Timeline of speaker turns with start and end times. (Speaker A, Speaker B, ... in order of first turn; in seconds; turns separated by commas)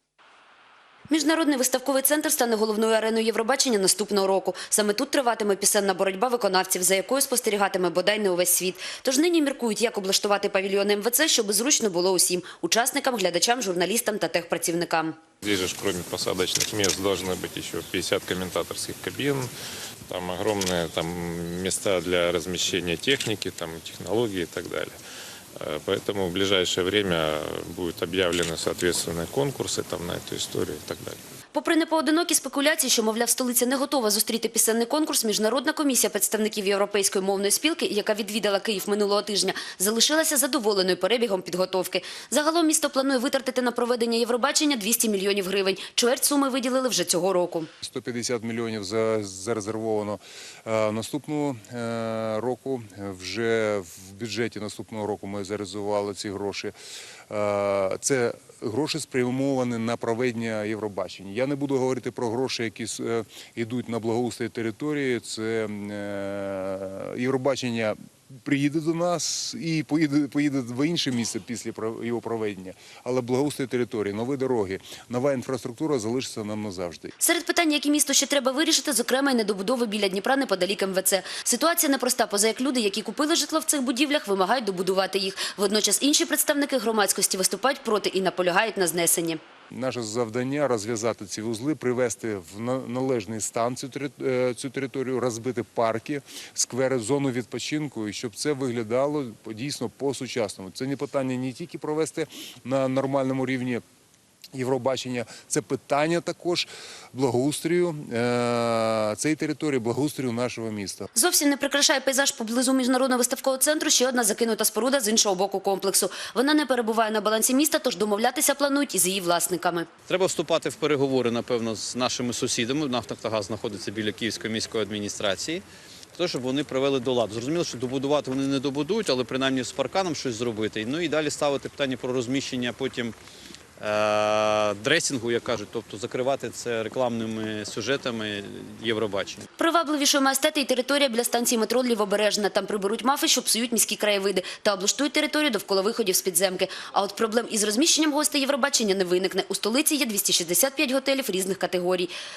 Speaker A: 1.1-15.2, Speaker B: 15.4-19.5, Speaker B: 20.1-24.9, Speaker B: 25.6-31.2, Speaker A: 31.5-47.7, Speaker C: 47.8-56.7, Speaker C: 57.3-77.1, Speaker A: 77.2-89.4, Speaker C: 89.7-103.8, Speaker C: 104.5-111.1, Speaker A: 111.1-119.9, Speaker D: 120.1-125.6, Speaker D: 126.2-133.1, Speaker D: 133.8-139.4, Speaker A: 139.6-152.1